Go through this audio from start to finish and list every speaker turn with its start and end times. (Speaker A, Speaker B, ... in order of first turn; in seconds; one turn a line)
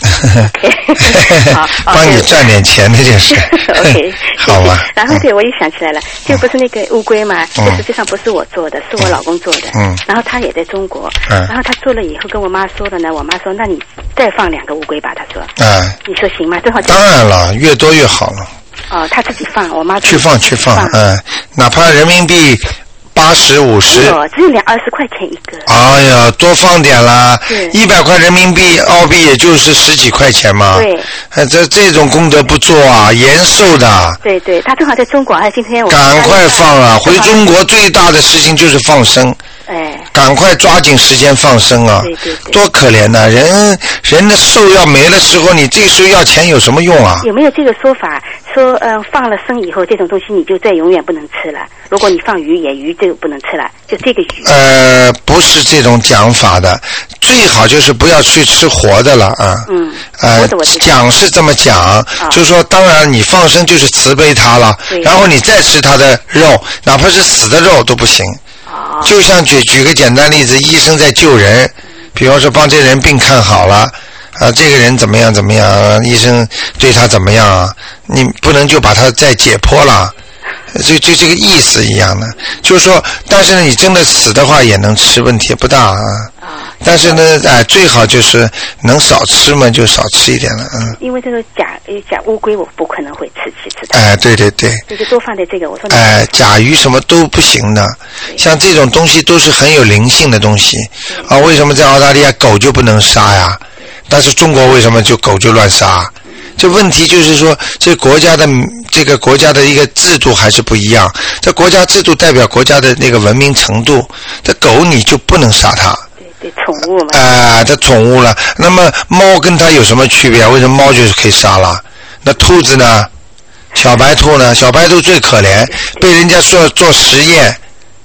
Speaker A: 0.1-0.5
Speaker B: 0.3-2.5
Speaker A: 1.1-5.2
Speaker B: 3.3-15.5
Speaker A: 9.7-10.0
Speaker A: 15.6-16.0
Speaker B: 16.0-17.0
Speaker A: 16.8-18.5
Speaker B: 18.9-21.0
Speaker A: 20.0-24.2
Speaker B: 23.9-25.7
Speaker A: 25.7-34.2
Speaker B: 27.5-27.8
Speaker B: 30.7-31.1
Speaker B: 34.2-37.4
Speaker A: 35.9-39.4
Speaker B: 39.7-40.1
Speaker A: 40.1-47.3
Speaker B: 42.0-42.6
Speaker B: 47.2-54.5
Speaker A: 54.4-59.7
Speaker B: 59.6-60.9
Speaker A: 60.2-68.4
Speaker B: 64.9-65.2
Speaker B: 68.7-69.1
Speaker A: 69.0-80.1
Speaker A: 80.7-86.3
Speaker B: 86.4-87.2
Speaker A: 86.8-91.0
Speaker B: 91.0-94.0
Speaker A: 93.9-94.8
Speaker B: 94.9-96.3
Speaker A: 95.9-116.0
Speaker B: 116.2-117.3
Speaker A: 117.1-123.1
Speaker A: 123.8-127.6